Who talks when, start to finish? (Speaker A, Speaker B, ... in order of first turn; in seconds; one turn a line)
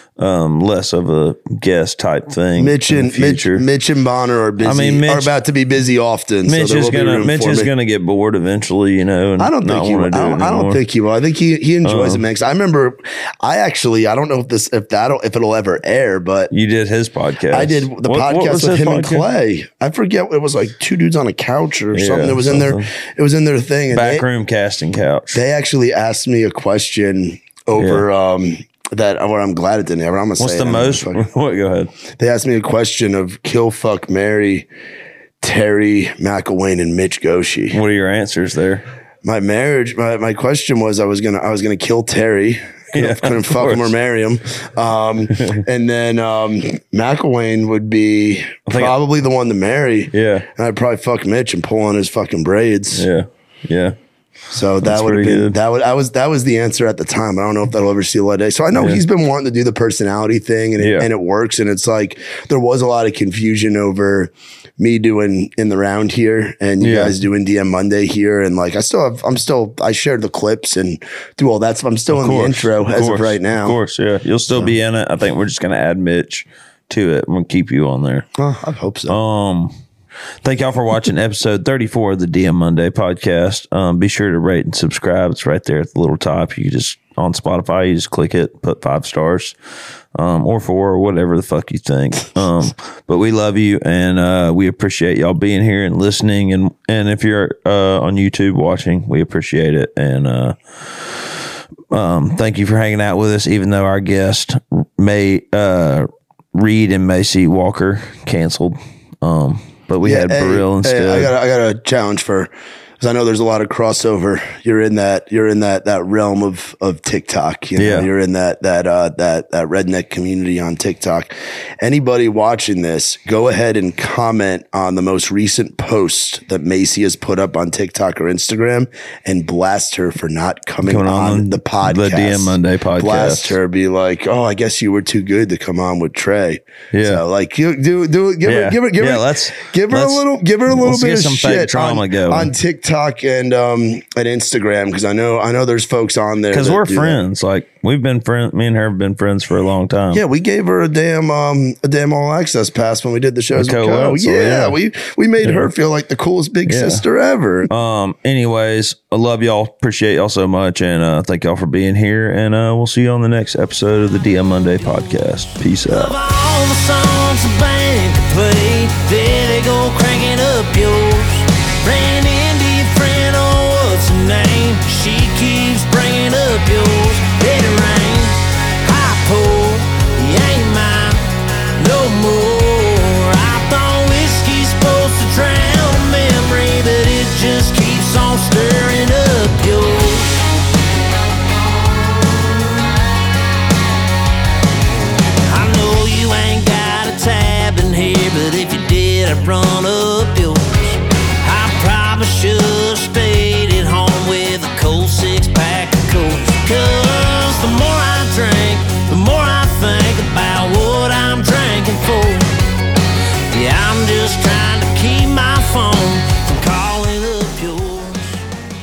Speaker A: 0.2-3.6
Speaker B: 2.6-7.7
Speaker A: 4.6-5.3
Speaker A: 6.5-10.8
Speaker B: 9.4-16.5
Speaker A: 11.8-12.2
Speaker A: 16.5-19.2
Speaker B: 17.5-24.3
Speaker A: 21.9-22.9
Speaker A: 23.9-25.4
Speaker B: 25.3-31.3
Speaker A: 27.8-28.1
Speaker A: 30.4-31.9
Speaker B: 32.2-34.7
Speaker B: 35.4-37.8
Speaker A: 37.7-38.9
Speaker B: 39.2-53.1
Speaker A: 42.9-44.0
Speaker A: 45.4-45.6
Speaker A: 48.7-49.0
Speaker A: 50.1-50.5
Speaker A: 53.0-54.0
Speaker B: 54.5-73.8
Speaker A: 54.8-55.6
Speaker A: 58.7-59.0
Speaker A: 60.8-61.1
Speaker A: 66.8-67.2
Speaker A: 72.1-78.3
Speaker B: 78.4-79.2
Speaker A: 79.1-79.8
Speaker A: 80.4-89.6
Speaker A: 90.1-111.3
Speaker B: 110.0-147.2
Speaker A: 117.8-118.1
Speaker A: 130.8-133.6
Speaker A: 136.9-137.2
Speaker A: 138.4-142.5
Speaker A: 146.5-150.2
Speaker B: 150.1-157.7
Speaker A: 153.5-154.8
Speaker A: 155.4-155.7
Speaker A: 156.7-157.0
Speaker A: 157.7-166.1
Speaker C: 164.8-190.6
Speaker C: 191.5-192.9
Speaker C: 195.4-212.6
Speaker C: 213.5-218.4